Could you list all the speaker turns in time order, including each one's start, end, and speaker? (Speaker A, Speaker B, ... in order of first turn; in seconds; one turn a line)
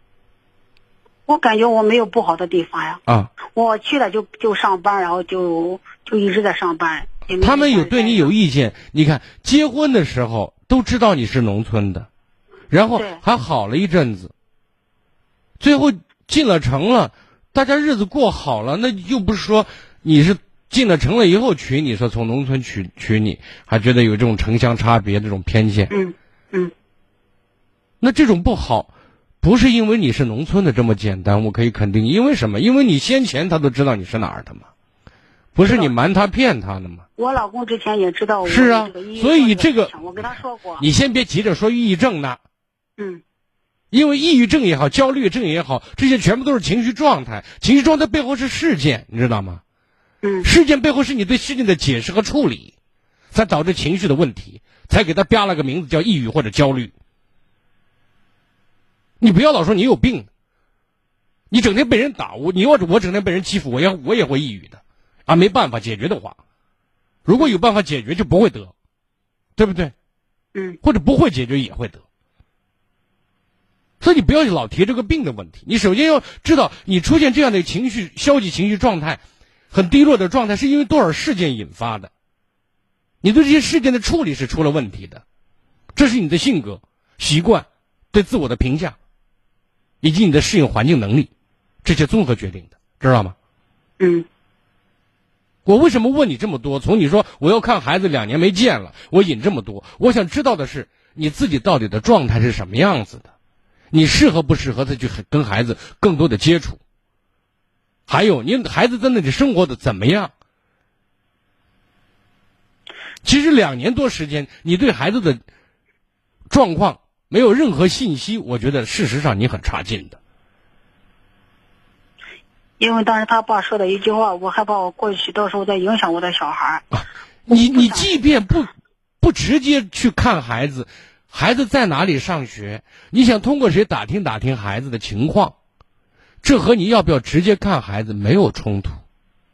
Speaker A: 1.3-8.3
Speaker B: 3.1-3.3
Speaker B: 7.4-12.1
Speaker B: 12.7-14.3
Speaker A: 12.9-13.2
Speaker B: 15.6-25.9
Speaker A: 25.9-26.7
Speaker B: 28.0-28.9
Speaker B: 29.4-34.6
Speaker B: 35.5-37.0
Speaker A: 35.6-35.9
Speaker A: 37.2-40.8
Speaker B: 38.4-40.0
Speaker B: 40.8-42.4
Speaker B: 43.9-49.6
Speaker A: 50.2-50.5
Speaker B: 50.4-52.7
Speaker B: 53.3-56.9
Speaker B: 59.2-60.3
Speaker B: 61.5-66.4
Speaker B: 67.2-68.7
Speaker B: 69.6-69.9
Speaker B: 70.8-72.0
Speaker B: 74.0-79.2
Speaker B: 79.7-82.1
Speaker B: 83.2-85.2
Speaker B: 85.9-88.9
Speaker B: 90.0-91.3
Speaker B: 91.8-93.3
Speaker A: 94.0-94.2
Speaker B: 95.7-103.3
Speaker B: 103.9-106.8
Speaker B: 108.1-110.3
Speaker B: 113.2-115.4
Speaker B: 116.5-120.2
Speaker A: 122.8-126.8
Speaker B: 126.9-128.7
Speaker A: 127.5-128.1
Speaker B: 129.2-135.5
Speaker B: 136.4-139.0